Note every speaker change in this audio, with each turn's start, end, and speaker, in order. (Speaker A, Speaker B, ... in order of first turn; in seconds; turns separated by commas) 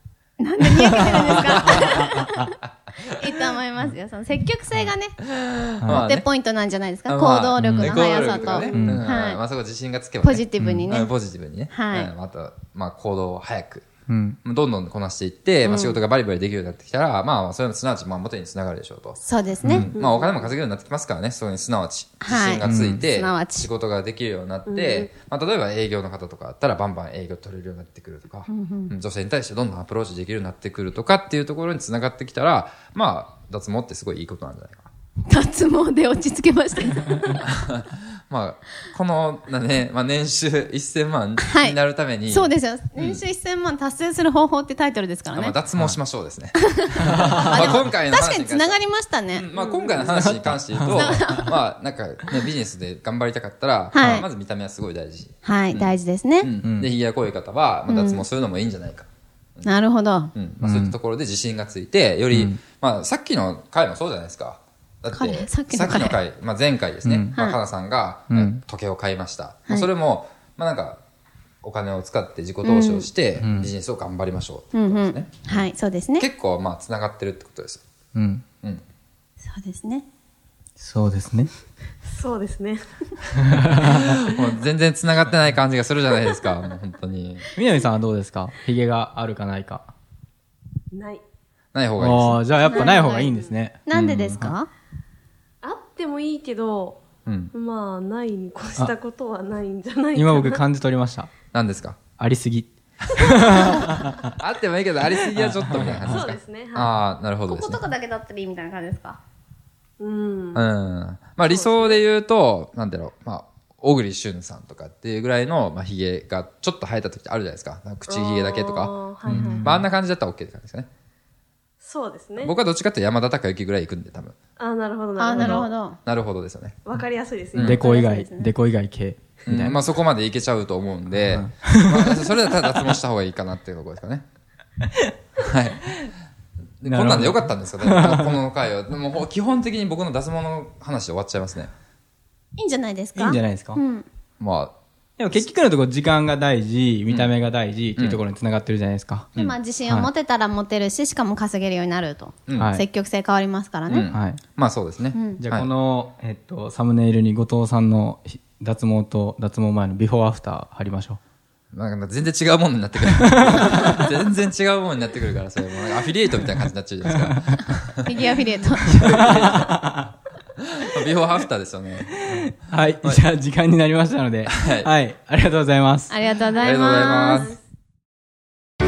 Speaker A: 0.4-5.2, Speaker B: 0.9-1.9, Speaker B: 5.3-6.3, Speaker C: 5.8-6.1, Speaker A: 5.9-9.4, Speaker B: 7.1-13.8, Speaker C: 7.6-8.1, Speaker C: 8.7-9.1, Speaker A: 10.2-11.1, Speaker C: 10.6-10.9, Speaker A: 11.7-12.1, Speaker C: 14.1-14.4, Speaker B: 14.4-34.9, Speaker A: 15.7-16.0, Speaker A: 19.2-19.9, Speaker C: 19.6-19.9, Speaker D: 19.9-20.5, Speaker A: 22.2-23.7, Speaker C: 22.6-23.0, Speaker D: 24.7-25.1, Speaker A: 28.5-28.9, Speaker A: 35.3-37.4, Speaker B: 37.5-43.2, Speaker A: 41.5-45.6, Speaker B: 45.3-48.8, Speaker A: 46.6-49.5, Speaker C: 47.1-47.7, Speaker B: 49.3-59.1, Speaker D: 49.5-50.0, Speaker C: 50.0-51.4, Speaker A: 50.9-51.5, Speaker A: 53.9-54.2, Speaker A: 55.4-56.5, Speaker C: 56.6-56.9, Speaker A: 57.9-58.2, Speaker A: 59.7-60.3, Speaker B: 60.4-71.0, Speaker C: 60.6-61.0, Speaker C: 62.3-62.6, Speaker A: 65.1-66.2, Speaker C: 67.0-67.3, Speaker C: 68.3-68.6, Speaker B: 71.6-75.5, Speaker A: 72.6-73.1, Speaker C: 73.4-73.7, Speaker A: 74.7-76.2, Speaker B: 76.2-77.8, Speaker C: 78.2-78.4, Speaker A: 79.4-80.0, Speaker C: 80.8-81.5, Speaker D: 82.0-82.8, Speaker C: 83.4-84.2, Speaker B: 83.7-87.5, Speaker C: 87.5-89.9, Speaker D: 90.9-91.2, Speaker B: 91.7-92.4, Speaker C: 92.0-94.6, Speaker D: 92.6-93.6, Speaker A: 92.7-93.1, Speaker A: 93.9-94.7, Speaker D: 95.6-97.0, Speaker B: 97.2-97.5, Speaker D: 97.5-100.6, Speaker C: 100.2-101.3, Speaker B: 101.5-102.0, Speaker C: 102.2-104.3, Speaker B: 104.4-107.8, Speaker C: 105.3-106.2, Speaker D: 106.0-107.0, Speaker A: 107.5-109.2, Speaker D: 110.0-110.7, Speaker B: 110.5-120.9, Speaker D: 111.4-112.0, Speaker D: 118.1-119.7, Speaker C: 119.3-119.9, Speaker D: 121.8-122.5, Speaker B: 122.4-124.3, Speaker D: 124.6-125.7, Speaker A: 125.2-126.0, Speaker B: 125.4-126.8, Speaker D: 126.8-127.7, Speaker B: 127.5-127.8, Speaker C: 127.6-129.8, Speaker A: 127.8-128.5, Speaker B: 129.5-134.2, Speaker C: 131.1-133.0, Speaker B: 135.4-135.9, Speaker B: 136.8-141.7, Speaker C: 136.8-138.4, Speaker A: 142.6-144.1, Speaker C: 143.2-143.8, Speaker B: 144.4-144.8, Speaker C: 145.2-149.3, Speaker B: 147.1-147.3, Speaker A: 149.4-154.1, Speaker C: 149.8-150.1, Speaker C: 152.6-152.8, Speaker B: 153.9-155.7, Speaker C: 154.1-154.4, Speaker A: 155.1-155.4, Speaker C: 155.4-161.2, Speaker B: 161.7-168.3, Speaker C: 163.0-164.0, Speaker C: 167.1-167.6, Speaker A: 168.1-169.1, Speaker B: 168.9-169.9, Speaker C: 168.9-170.1, Speaker B: 170.7-172.4, Speaker C: 172.2-176.2, Speaker B: 174.5-174.9, Speaker A: 176.1-177.5, Speaker D: 176.4-177.6, Speaker B: 176.6-177.6